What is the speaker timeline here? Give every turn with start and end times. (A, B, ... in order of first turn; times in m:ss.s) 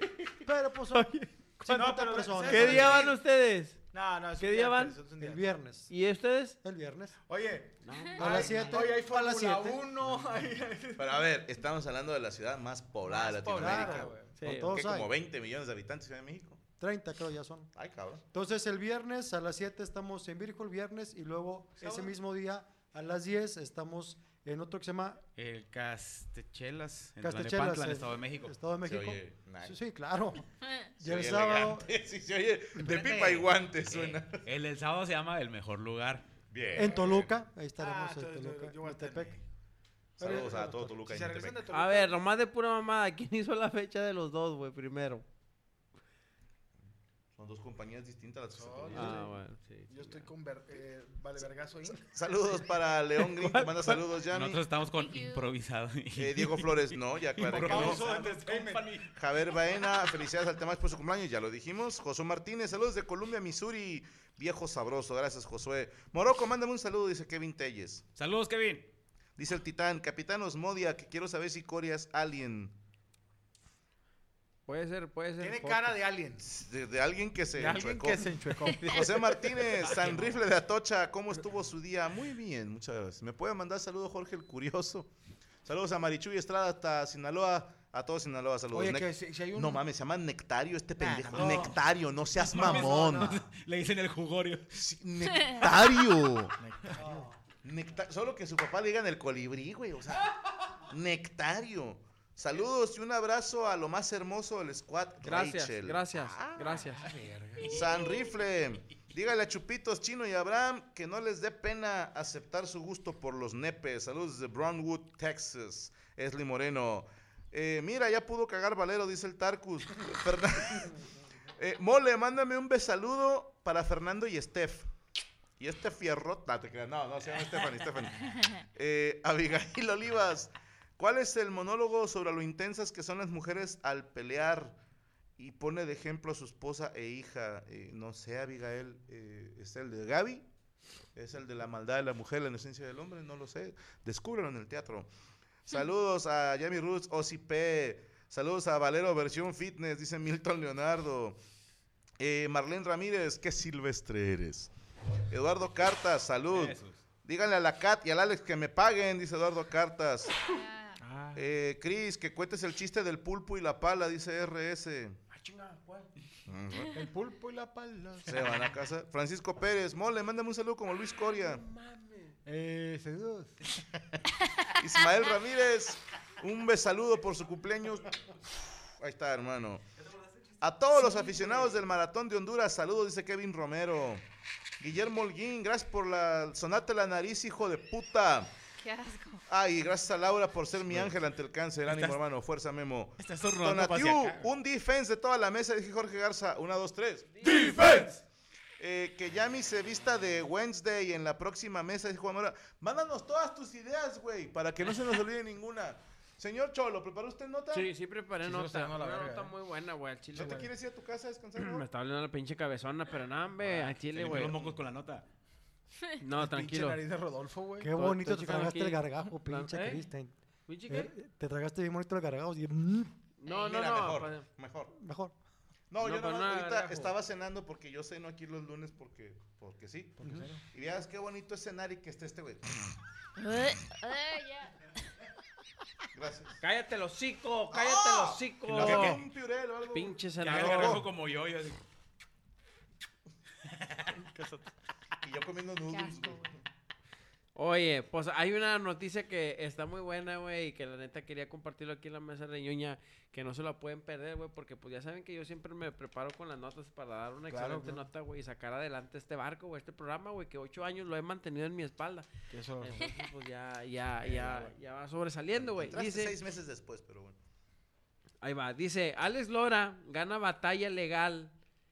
0:00.4-0:03.1 A
0:00.9-0:01.3 B
0:01.6-0:03.2 C
0:02.4-0:03.8 B
0:03.9-0:05.5 C
0:04.4-0:05.0 B
0:05.2-0:05.9 A
0:05.9-0:06.6 B
0:06.6-0:07.2 A
0:07.3-0:11.2 C
0:07.8-0:08.8 B
0:08.2-0:09.8 A
0:11.0-0:16.6 D
0:13.0-0:14.4 C
0:13.6-0:15.1 A
0:14.4-0:14.8 B
0:16.8-0:17.7 A
0:17.7-0:18.2 D
0:18.3-0:25.2 A
0:21.8-0:22.2 C
0:25.4-0:28.5 E
0:27.2-0:31.9 A
0:28.8-0:29.8 D
0:31.0-0:34.4 D
0:32.9-0:36.2 E
0:36.5-0:37.3 D
0:36.7-0:39.4 A
0:37.8-0:39.4 C
0:40.2-0:41.0 A
0:40.2-0:41.6 D
0:40.2-0:42.2 C
0:41.7-0:45.2 B
0:47.4-0:49.2 D
0:48.5-0:52.0 C
0:48.9-0:50.3 B
0:52.0-0:54.6 D
0:53.4-0:54.0 B
0:54.3-0:59.0 E
0:54.9-0:55.5 F
0:56.2-0:58.1 D
0:57.4-0:59.1 C
0:59.1-1:08.1 D
1:08.2-1:08.9 E
1:09.4-1:12.7 D
1:14.7-1:16.0 B
1:15.4-1:16.5 C
1:16.4-1:25.1 D
1:17.5-1:19.3 C
1:19.9-1:20.4 E
1:25.6-1:33.4 D
1:28.7-1:29.8 C
1:31.0-1:31.8 C
1:32.4-1:34.7 E
1:32.6-1:33.3 C
1:34.7-1:36.6 D
1:35.3-1:35.6 F
1:36.6-1:37.2 C
1:36.9-1:37.4 A
1:37.6-1:46.9 D
1:45.2-1:47.1 B
1:46.9-1:47.8 C
1:47.6-2:01.0 D
2:01.6-2:04.9 D
2:05.6-2:14.8 D
2:15.4-2:20.5 D
2:21.2-2:25.1 D
2:25.7-2:31.4 D
2:32.2-2:34.7 D
2:35.3-2:40.4 D
2:36.5-2:37.0 E
2:40.4-2:41.0 F
2:41.0-2:41.4 C
2:41.4-2:45.2 D
2:45.3-2:46.1 C
2:46.5-2:47.0 D
2:46.9-2:48.6 C
2:48.2-2:51.6 D
2:51.3-2:52.4 B
2:52.5-2:53.5 C
2:54.8-2:58.2 D
2:58.9-2:59.8 D
3:00.6-3:04.2 D
3:04.8-3:08.5 D
3:08.8-3:09.4 F
3:09.5-3:18.1 D
3:10.9-3:11.1 E
3:11.9-3:12.2 E
3:13.2-3:14.5 E
3:17.4-3:17.7 B
3:17.7-3:18.1 E
3:18.8-3:27.9 D
3:27.7-3:30.7 B
3:28.4-3:29.5 C
3:30.3-3:31.9 D
3:30.4-3:30.7 C
3:31.6-3:34.6 B
3:33.6-3:35.2 E
3:34.2-3:34.8 D
3:36.2-3:37.0 B
3:36.3-3:37.9 C
3:37.8-3:40.4 A
3:37.9-3:40.0 B
3:40.7-3:41.1 B
3:40.9-3:43.1 A
3:43.4-3:44.5 B
3:43.5-3:44.9 D
3:45.0-3:45.4 A
3:45.9-3:52.9 D
3:46.0-3:47.1 B
3:50.2-3:50.5 A
3:50.2-3:50.6 C
3:53.4-3:54.7 F
3:56.1-3:56.6 D
3:56.6-3:59.2 B
3:57.7-4:01.1 D
3:58.7-3:59.2 E
3:59.9-4:01.0 B
4:00.4-4:01.8 E
4:03.6-4:04.2 E
4:05.2-4:06.5 D
4:05.9-4:06.5 F
4:07.5-4:22.3 B
4:17.5-4:18.0 C
4:22.5-4:23.2 C
4:22.8-4:26.4 B
4:24.2-4:24.7 C
4:25.6-4:27.4 D
4:28.4-4:31.5 B